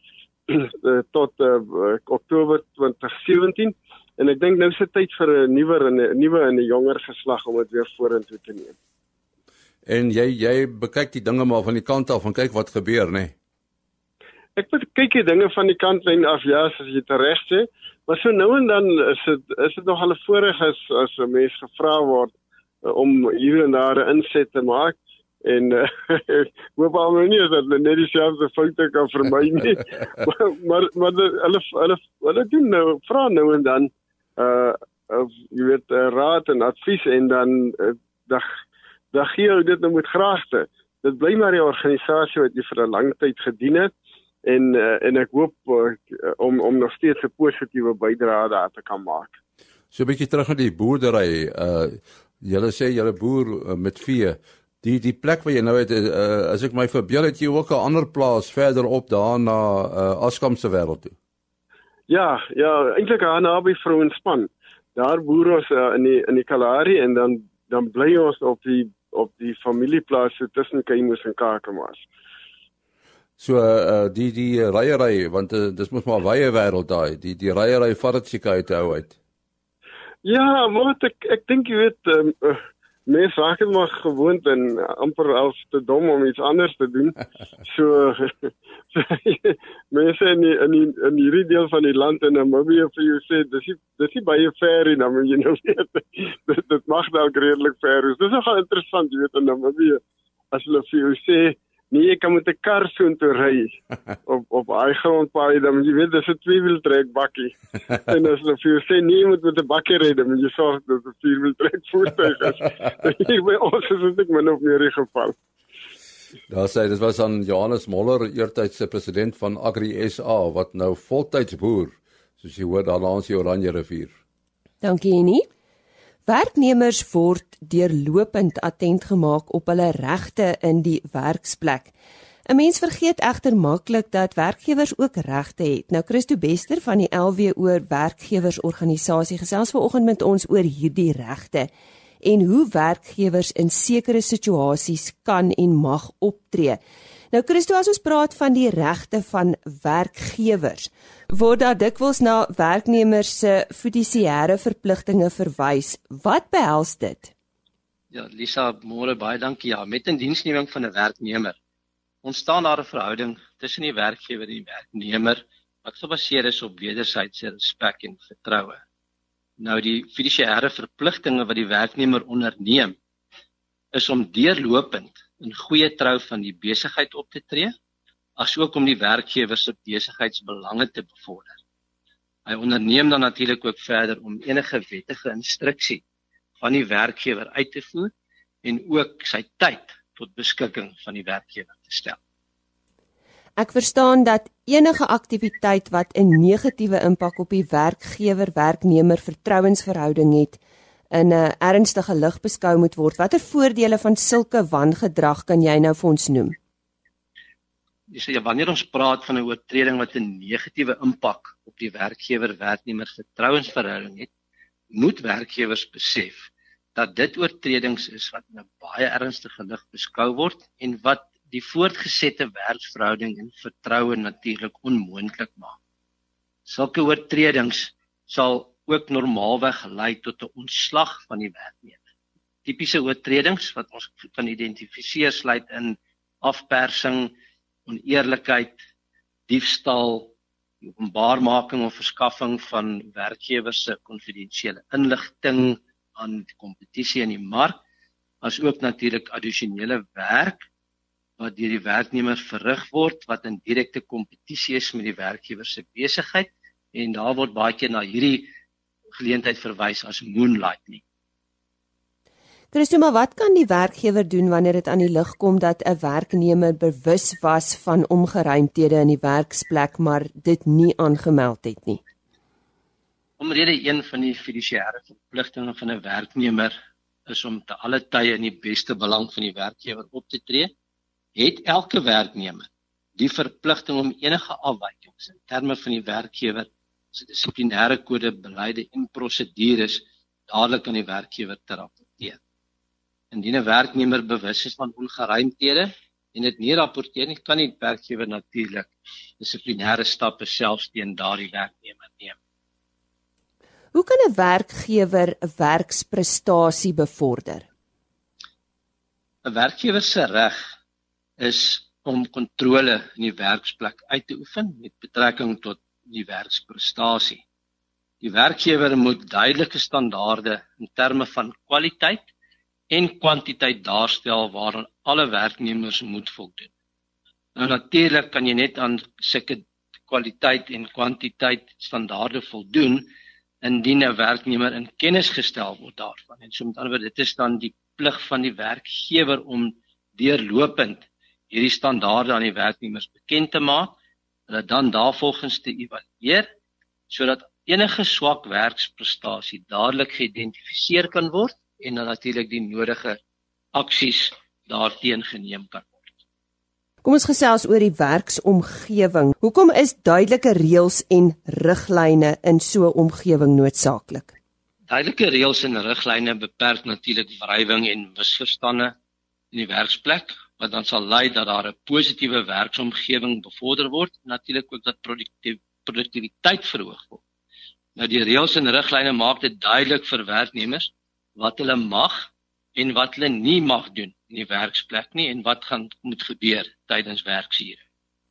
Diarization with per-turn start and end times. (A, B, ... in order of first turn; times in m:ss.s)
0:00.5-0:08.7 A
0:09.8-0:13.3 B
0:14.6-0:38.5 A
0:39.1-0:43.9 A
0:44.4-0:49.4 A
0:49.9-1:01.1 B
1:02.1-1:12.0 A
1:13.4-1:19.2 B
1:20.2-1:27.2 A
1:27.7-1:40.0 A
1:40.5-1:55.3 A
1:56.5-2:04.1 B
2:04.8-2:05.5 C
2:06.3-2:11.9 C
2:12.5-2:21.7 C
2:22.2-2:26.8 C
2:27.3-2:37.3 C
2:38.1-2:41.6 D
2:42.2-2:48.8 D
2:49.6-2:53.0 D
2:53.9-2:57.7 D
2:58.4-3:01.6 D
3:02.4-3:06.0 D
3:06.6-3:08.1 D
3:08.6-3:12.2 D
3:13.6-3:20.6 C
3:21.1-3:26.6 C
3:28.1-3:34.3 D
3:34.9-3:45.8 D
3:46.7-3:52.0 D
3:52.6-3:57.3 D
3:57.8-3:58.8 D
3:59.5-4:07.8 D
4:08.4-4:10.6 D
4:11.4-4:18.5 D
4:19.1-4:21.0 D
4:22.7-4:32.0 C
4:33.4-4:36.7 D
4:37.3-4:40.7 D
4:41.4-4:52.4 D
4:53.3-5:02.4 D
5:03.9-5:07.7 C
5:09.4-5:10.7 D
5:11.4-5:17.4 D
5:18.2-5:22.3 D
5:22.9-5:26.7 D
5:27.6-5:33.1 D
5:33.6-5:43.9 D
5:44.5-5:46.5 D
5:47.1-5:53.2 D
5:53.7-5:56.1 D
5:57.0-6:04.3 C
6:04.9-6:08.9 D
6:09.5-6:17.2 D
6:18.0-6:27.8 D